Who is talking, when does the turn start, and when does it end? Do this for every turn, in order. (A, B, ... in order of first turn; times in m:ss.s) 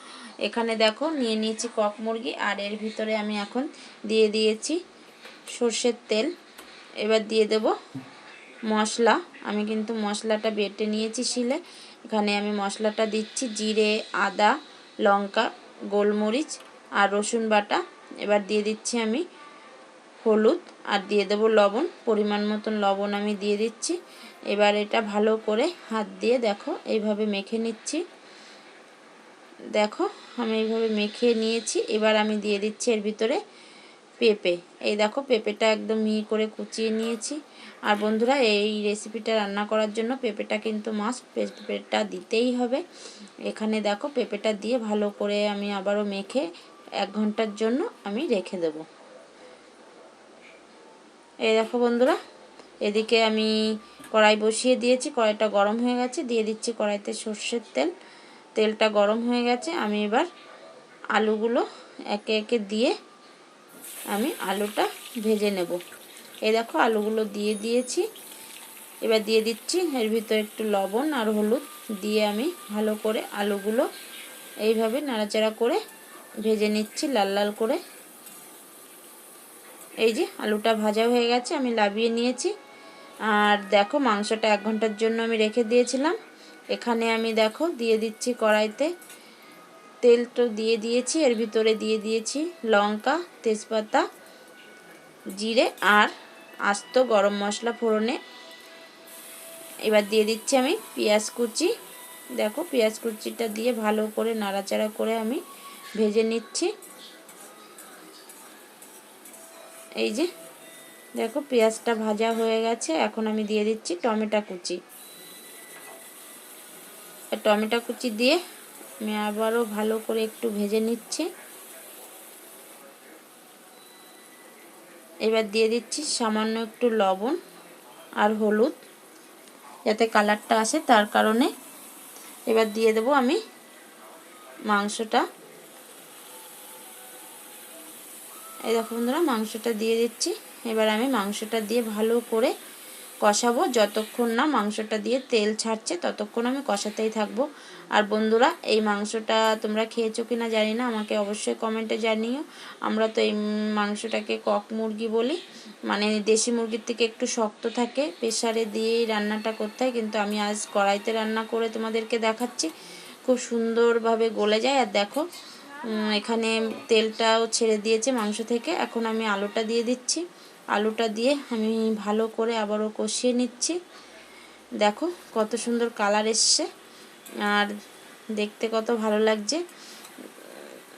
0:00.4-0:04.8 A
0:05.5-0:06.3 A
0:07.0-0:07.8 A
0:08.7-0:19.2 A
0:20.2-0:24.0 A
0:24.5-0:28.0 A
0:29.7-0:33.4 A
0:34.2-0:42.8 A
0:43.4-0:46.5 A
0:47.0-0:48.8 A
0:51.4-0:52.2 A
0:52.8-0:53.5 A
0:54.1-0:57.9 A
0:58.5-1:00.3 A
1:01.2-1:03.0 A
1:04.1-1:05.8 A
1:06.4-1:08.1 A
1:09.0-1:13.9 A
1:14.6-1:15.8 A
1:16.4-1:17.8 A
1:20.0-1:22.5 A
1:23.3-1:26.2 A
1:26.7-1:28.9 A
1:30.0-1:34.1 A
1:35.4-1:36.1 A
1:36.7-1:38.2 A
1:39.8-1:41.7 A
1:42.4-1:45.4 A
1:46.0-1:46.7 A
1:50.0-1:50.3 A
1:51.2-1:54.8 A
1:57.4-1:58.4 A
1:59.0-2:01.3 A
2:05.2-2:07.4 A
2:08.2-2:08.8 A
2:09.9-2:11.5 A
2:12.5-2:13.4 A
2:14.7-2:15.3 A
2:18.7-2:22.5 A
2:23.2-2:42.7 A
2:43.2-2:45.3 A
2:45.8-2:53.8 A
2:54.8-2:56.7 A
2:57.4-2:57.7 A
2:58.3-2:59.6 A
3:00.4-3:00.7 A